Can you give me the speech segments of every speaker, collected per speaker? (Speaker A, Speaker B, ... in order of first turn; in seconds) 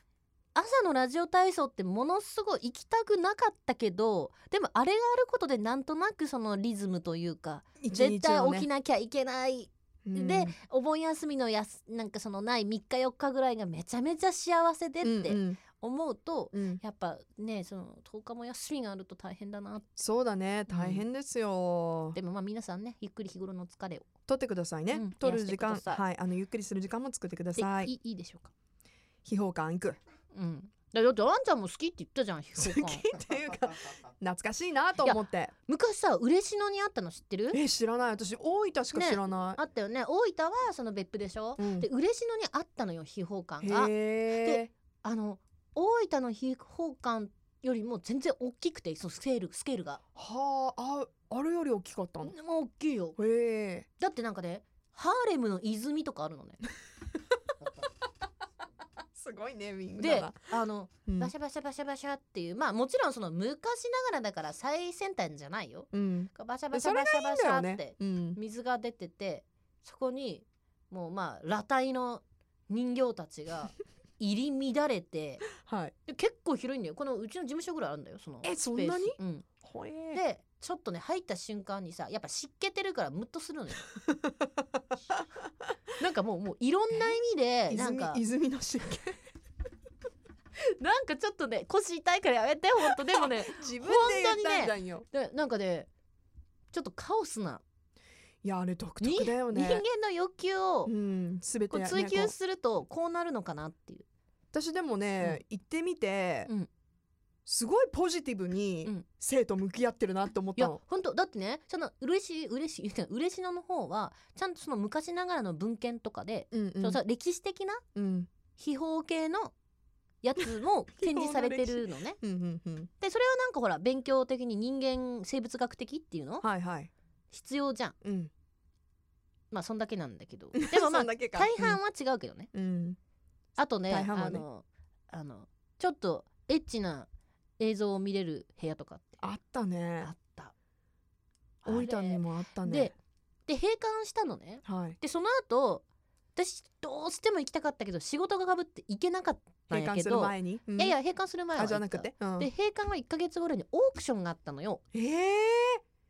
Speaker A: 0.5-19.8, 20.7-21.0, 22.1-24.1, 24.9-26.0, 27.6-28.5, 30.3-33.1, 35.0-37.6, 38.9-50.0, 52.2-53.2, 54.0-56.6, 60.0-75.5, 76.1-79.5, 80.1-83.9, 86.0-88.2, 90.8-95.9, 96.7-97.6, 99.0-100.9, 101.7-104.0, 110.5-117.8, 118.5-119.5, 120.2-122.2, 123.0-126.5, 127.3-128.0, 129.5-132.5, 133.6-137.1, 137.6-139.2, 140.0-140.5, 141.6-142.9, 143.5-145.8, 146.3-154.8
Speaker B: 7.8-8.7, 10.1-10.5, 15.0-15.6, 16.5-16.8, 20.0-22.2, 24.3-27.9, 29.2-30.0, 32.6-35.5, 37.5-39.6, 41.6-41.9, 43.6-44.7, 50.1-52.3, 53.2-53.9, 59.1-60.5, 61.1-61.3, 65.9-68.4, 75.6-75.9, 78.4-80.2, 84.0-84.3, 87.7-89.2, 93.2-95.1, 98.4-99.8, 100.8-102.3, 104.5-106.5, 107.5-110.8, 116.5-117.0, 118.0-118.3, 121.0-122.9, 126.4-126.9, 128.0-128.3, 130.6-131.8, 132.5-133.0, 133.9-134.4, 139.2-140.1, 141.7-142.9, 144.7-145.0, 149.7-151.0, 151.6-152.5, 154.9-155.8